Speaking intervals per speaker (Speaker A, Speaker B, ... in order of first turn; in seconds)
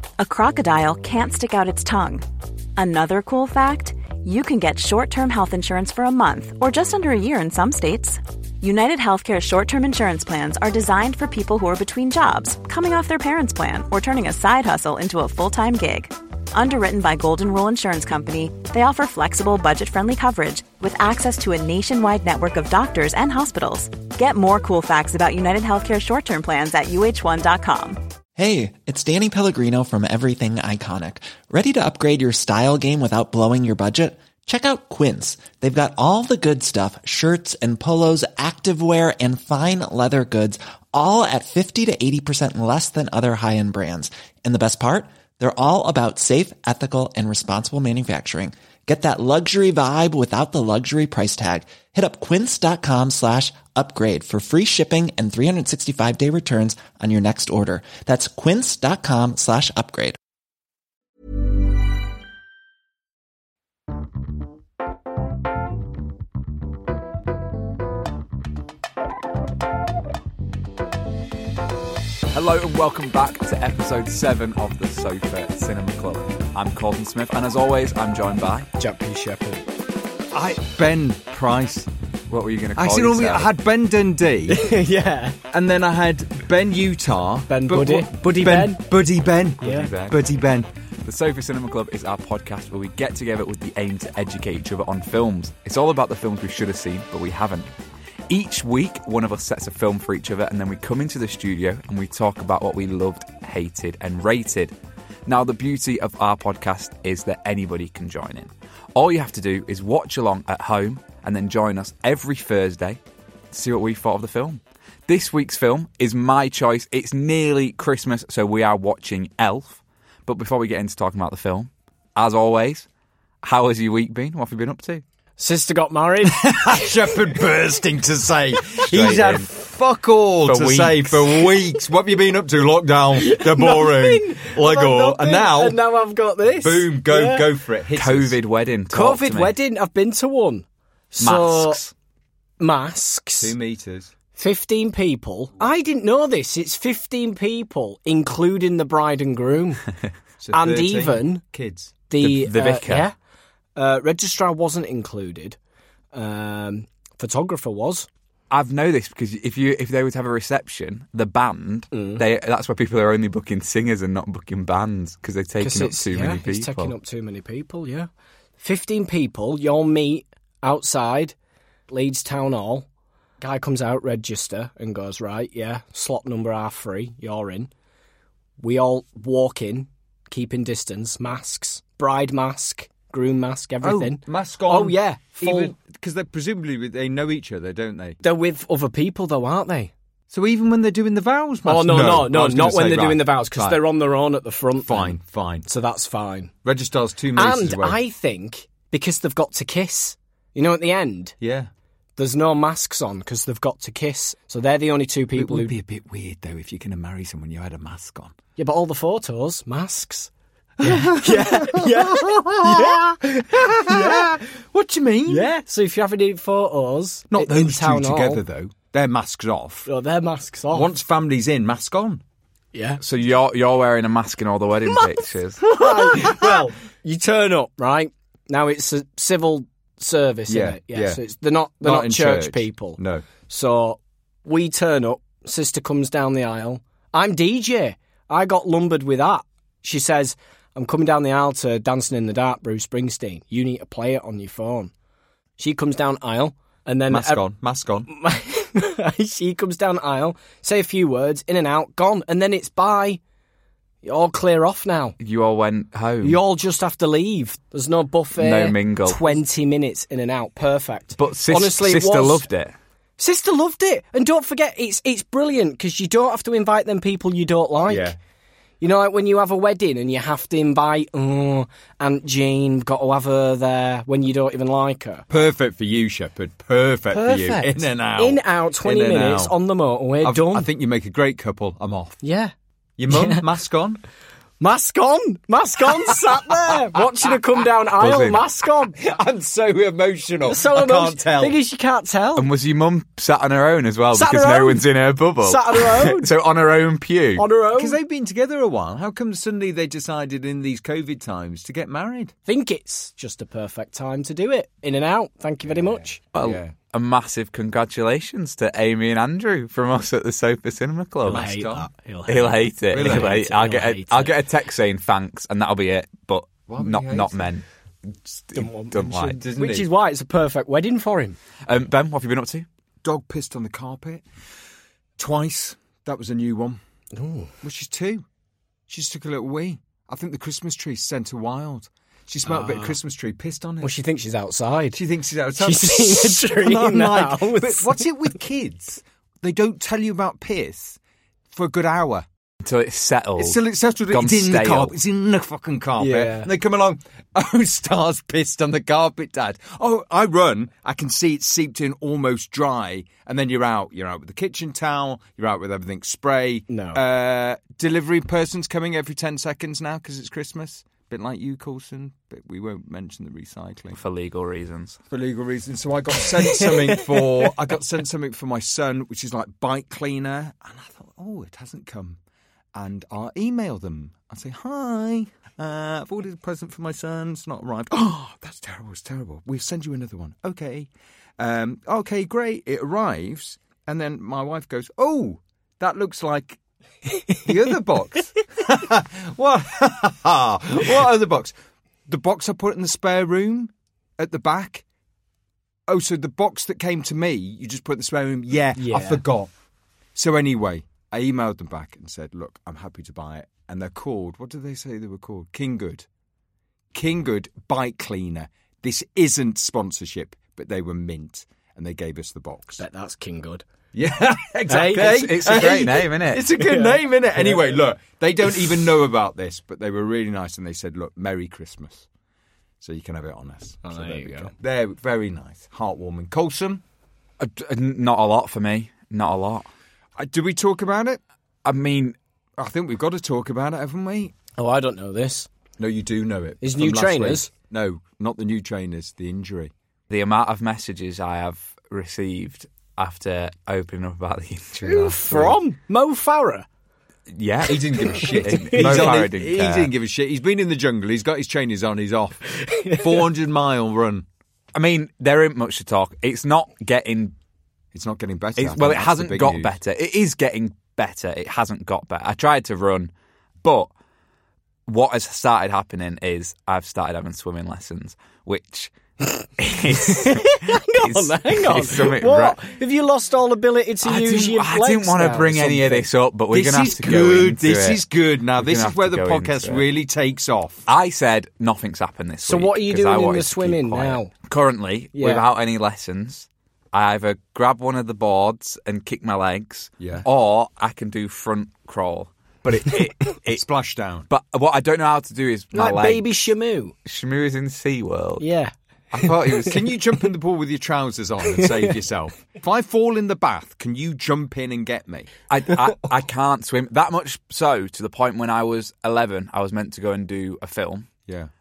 Speaker A: 0.2-28.0
Speaker B: 28.4-60.2
Speaker C: 72.3-78.7, 82.3-83.5, 89.6-90.2, 91.0-97.7, 98.3-104.7, 105.2-113.0, 113.5-122.9, 123.4-125.0, 128.9-129.5, 130.4-131.4, 137.9-139.6, 141.2-141.9, 152.2-153.1, 158.5-166.9, 223.0-225.6, 255.2-256.4, 258.4-259.4, 261.2-262.8, 288.0-288.4, 292.4-297.5, 306.3-311.5, 312.3-317.6, 318.3-319.4, 321.6-322.6, 342.6-344.9, 363.9-365.0, 414.9-416.5, 427.4-429.7, 431.6-432.1, 440.1-445.2, 447.3-449.9, 454.7-457.3, 458.6-463.1, 463.6-463.9, 464.9-468.9, 469.6-472.6, 474.0-479.8, 480.9-493.6, 494.3-496.3, 497.1-498.4, 499.1-499.7, 505.5-511.1
Speaker D: 78.8-79.6, 84.5-85.4, 87.5-88.8, 89.6-89.9, 125.4-126.8, 133.2-137.4, 138.9-141.8, 142.6-143.5, 144.3-149.9, 150.5-151.4, 152.1-153.1, 153.8-155.6, 156.1-158.1, 161.9-162.2, 165.6-168.1, 168.6-171.3, 171.9-172.8, 173.4-177.7, 178.6-185.7, 188.2-189.9, 191.6-196.5, 197.3-201.3, 202.2-205.7, 208.6-210.3, 210.8-214.3, 215.3-218.4, 219.8-220.9, 222.7-223.0, 225.7-244.9, 245.6-247.4, 248.1-253.2, 254.0-255.1, 256.2-262.5, 263.2-268.1, 268.8-275.3, 277.1-280.7, 282.2-282.5, 283.1-283.5, 284.6-289.0, 290.5-292.5, 294.1-294.8, 295.4-296.3, 297.4-298.0, 302.4-306.2, 311.2-314.3, 318.5-321.4, 327.1-327.5, 332.4-332.9, 333.8-335.0, 335.6-338.1, 346.0-346.5, 356.7-357.0, 366.4-367.4, 398.7-399.2, 412.8-413.6, 414.7-415.1, 416.6-417.6, 423.8-424.5, 434.6-435.5, 436.6-437.5, 444.8-446.6, 448.3-449.2, 452.6-453.3, 470.1-476.1, 482.4-484.3, 485.1-485.4, 495.7-496.9, 498.4-499.7
Speaker E: 80.3-81.9, 82.8-84.6, 85.5-90.7, 126.3-135.8, 136.5-138.4, 143.4-144.1, 150.4-151.9, 183.8-188.2, 190.3-193.8, 194.8-195.7, 196.6-198.0, 201.4-201.7, 205.3-208.3, 210.8-215.5, 217.3-219.9, 220.7-222.2, 225.7-226.6, 230.5-231.2, 231.8-233.2, 247.1-248.1, 267.9-268.2, 275.3-279.6, 280.2-282.2, 283.0-284.0, 289.0-291.6, 297.8-302.3, 305.6-306.7, 311.3-311.9, 312.9-313.3, 316.7-317.5, 318.9-319.9, 323.0-324.2, 325.2-326.8, 327.6-328.2, 328.9-333.9, 334.9-341.0, 341.5-342.3, 343.4-364.0, 365.1-372.2, 372.7-386.6, 387.4-391.6, 392.1-394.8, 395.9-399.5, 400.1-406.1, 406.9-412.8, 413.9-422.1, 422.8-426.8, 430.2-431.2, 432.6-434.3, 435.8-439.7, 445.2-445.6, 447.6-454.2, 457.9-459.7, 476.5-480.8, 490.0-490.2, 493.5-494.3, 499.2-505.3